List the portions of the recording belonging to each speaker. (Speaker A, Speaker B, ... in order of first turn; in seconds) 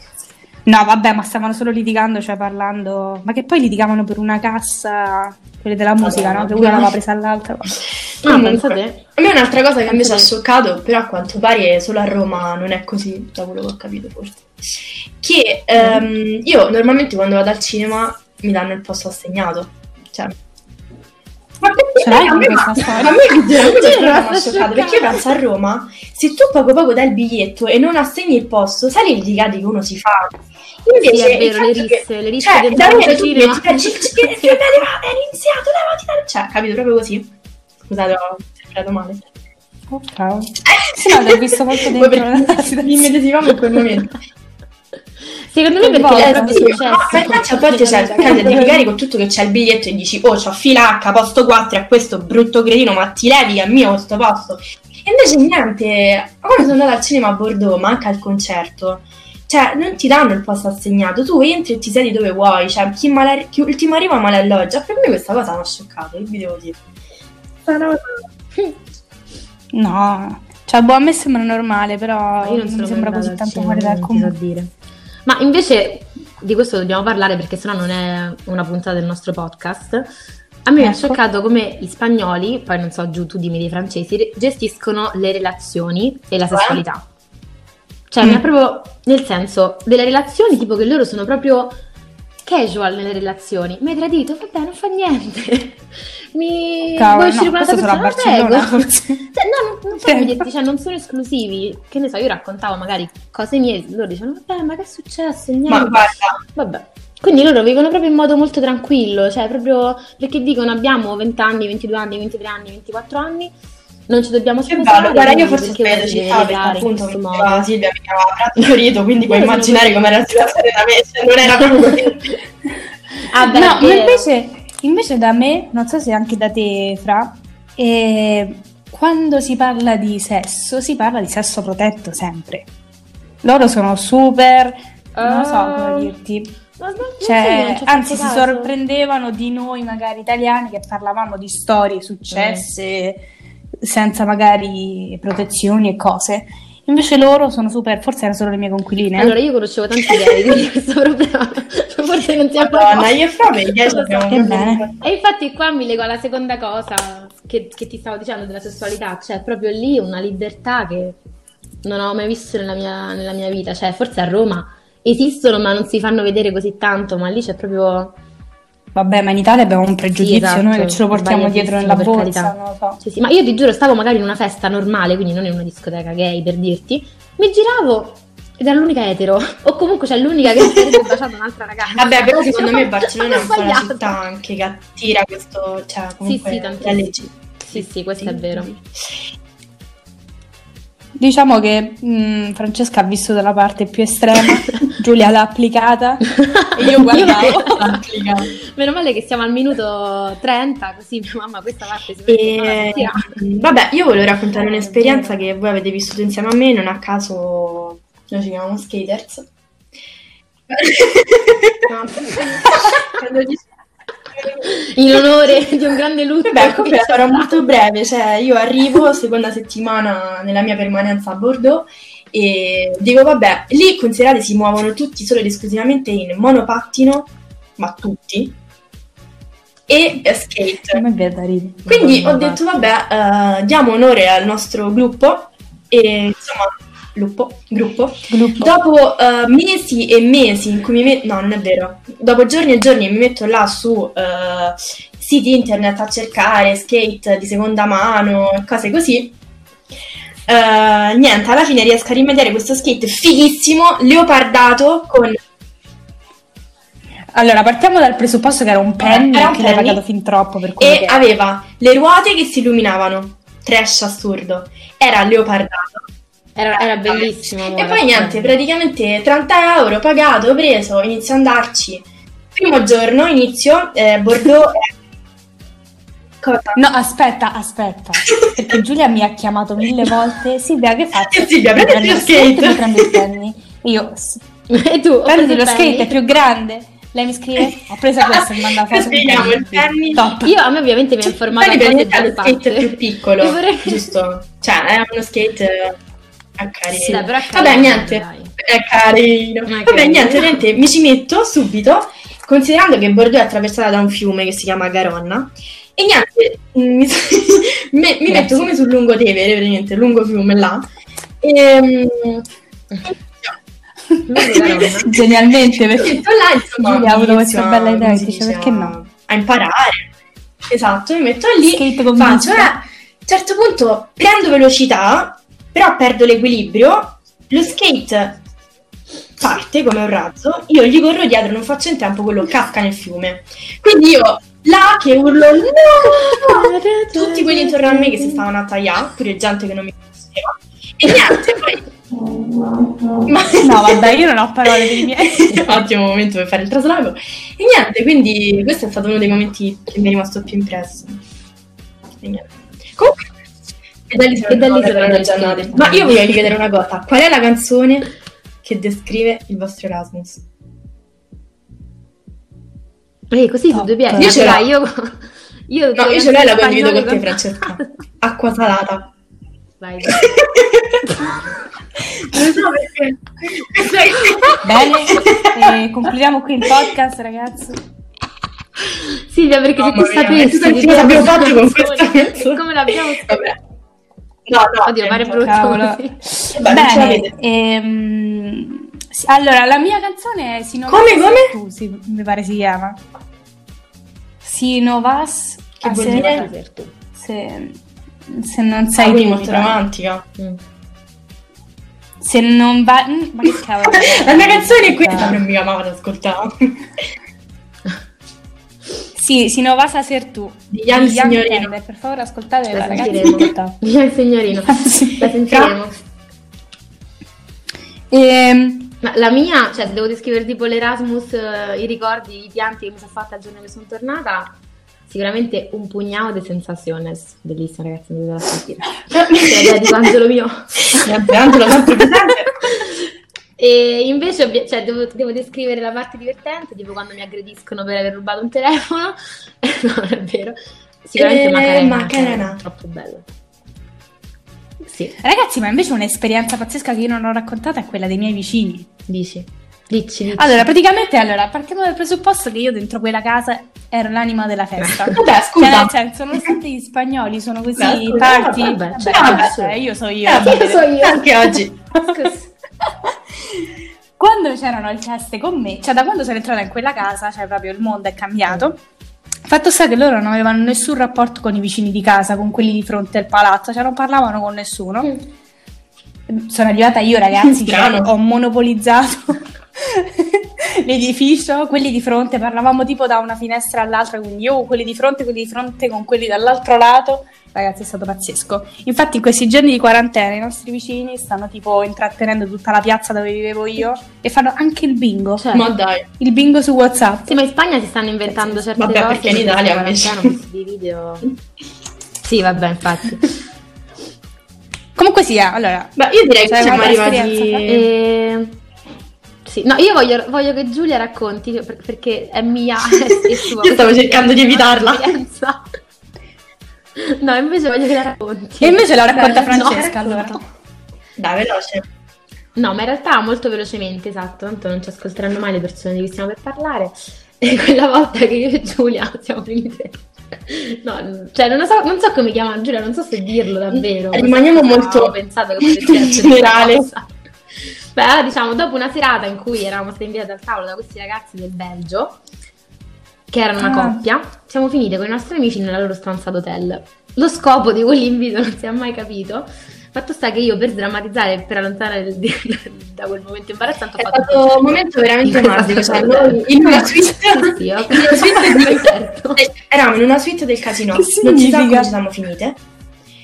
Speaker A: 0.7-7.8, 22.0-23.2, 39.9-43.2, 45.8-46.9, 48.2-48.8, 69.7-74.4, 80.8-81.2, 97.0-99.2, 100.0-100.5, 123.4-132.7, 133.4-136.6, 137.2-143.3, 143.8-149.3, 154.3-154.9, 168.9-173.0, 191.2-197.8, 204.6-205.4, 230.9-231.8, 238.3-238.8, 257.3-261.2, 276.8-284.4, 285.3-290.6, 308.3-308.5, 315.0-316.2, 316.8-318.9, 321.7-322.7, 343.6-345.8, 363.7-364.5, 374.6-377.8, 385.4-393.0, 394.4-396.5, 397.2-399.8, 402.2-405.4, 409.2-413.8, 414.7-415.6, 418.1-419.0, 445.2-448.9, 450.4-460.9, 464.2-468.8, 469.5-475.1, 476.3-495.5, 496.2-497.4, 505.0-507.8, 518.6-520.4, 543.6-544.0, 560.9-561.9
Speaker B: 6.0-7.0, 8.2-20.3, 21.6-37.3, 37.9-39.2, 40.6-44.1, 46.0-66.8, 67.7-68.1, 86.5-86.8, 105.7-106.4, 114.7-122.4, 152.6-155.0, 180.7-181.0, 182.0-188.8, 196.8-198.5, 202.3-209.5, 210.7-211.9, 212.6-213.6, 216.4-228.6, 229.9-231.0, 231.9-249.4, 250.5-255.4, 259.0-260.0, 260.8-266.0, 267.1-274.9, 276.4-276.8, 281.1-283.2, 288.2-290.3, 291.5-295.9, 296.6-310.9, 311.4-312.5, 313.0-313.6, 314.4-315.1, 315.9-320.1, 320.7-328.4, 329.4-341.8, 343.3-344.2, 344.7-351.2, 352.2-353.3, 354.1-358.1, 358.6-360.4, 364.1-364.7, 365.9-369.1, 370.0-371.1, 372.3-375.8, 379.8-383.6, 384.5-385.5, 386.5-387.3, 390.9-391.5, 395.8-396.5, 399.0-400.3, 403.8-406.8, 410.7-411.7, 429.1-429.9, 430.9-432.6, 441.2-442.6, 455.1-455.9, 457.8-459.5, 460.2-461.8, 477.4-478.1, 495.5-496.1, 498.8-500.4, 506.0-507.9, 513.1-515.2, 519.2-520.0, 521.2-521.9, 533.7-536.9, 554.0-562.6
Speaker C: 8.2-9.0, 9.9-10.3, 23.5-25.3, 31.1-34.6, 45.5-48.7, 72.4-74.7, 75.3-80.1, 80.7-87.0, 88.1-91.8, 92.4-113.5, 114.1-117.7, 119.2-120.3, 123.3-124.3, 135.2-136.1, 136.8-138.7, 142.3-142.7, 149.2-153.2, 153.7-154.4, 155.0-161.2, 161.8-168.2, 170.2-184.2, 186.2-188.7, 196.3-203.4, 211.9-213.0, 214.6-217.7, 231.8-232.9, 266.6-268.5, 284.7-286.2, 290.4-294.1, 297.0-298.5, 299.7-300.6, 314.3-315.1, 336.0-338.4, 354.5-356.5, 363.3-367.8, 369.8-370.4, 373.8-374.6, 378.9-383.6, 384.9-386.1, 396.0-396.9, 412.7-415.9, 419.0-424.5, 425.1-431.1, 433.6-443.3, 444.8-445.2, 449.1-450.7, 454.8-455.2, 458.3-459.8, 460.4-461.3, 462.1-462.4, 495.4-495.7, 497.3-501.3, 502.2-503.3, 507.7-508.6, 509.4-515.6, 517.0-520.4, 522.6-542.2, 543.3-559.5